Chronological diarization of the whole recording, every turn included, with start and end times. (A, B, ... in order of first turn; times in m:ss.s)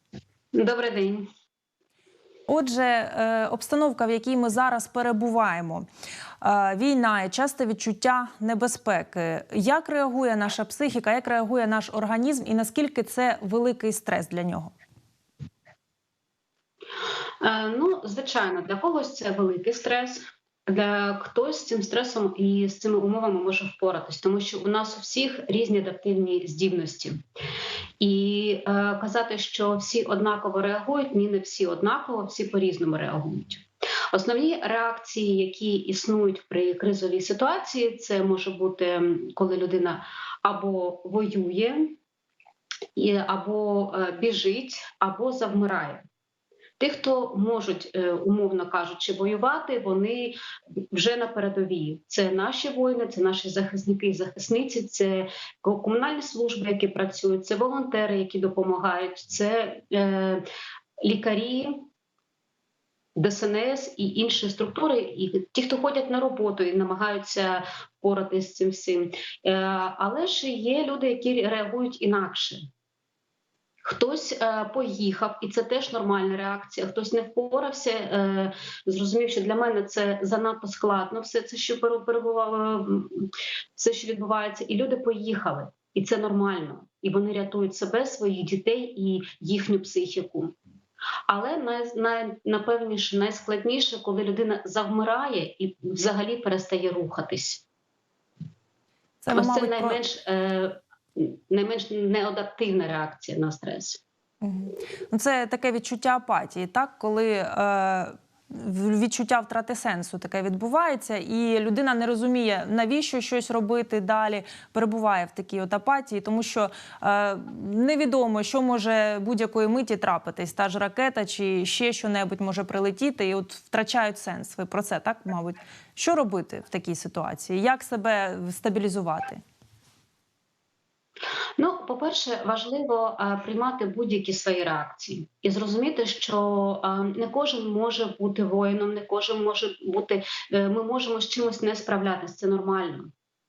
0:00.5-0:01.3 A
0:02.5-0:05.9 B
0:06.4-0:14.7 B
0:17.4-0:27.2 A
0:28.0-0:42.0 A
0:43.0-0:46.0 A
0:46.8-0:50.4 A
0:50.9-1:00.4 A
1:01.0-1:01.8 A
1:03.2-1:12.6 A
1:13.8-1:30.5 A
1:31.3-1:37.6 A
1:39.2-1:40.0 B
1:39.3-1:44.0 A
1:44.4-2:09.4 B
2:11.6-2:23.1 A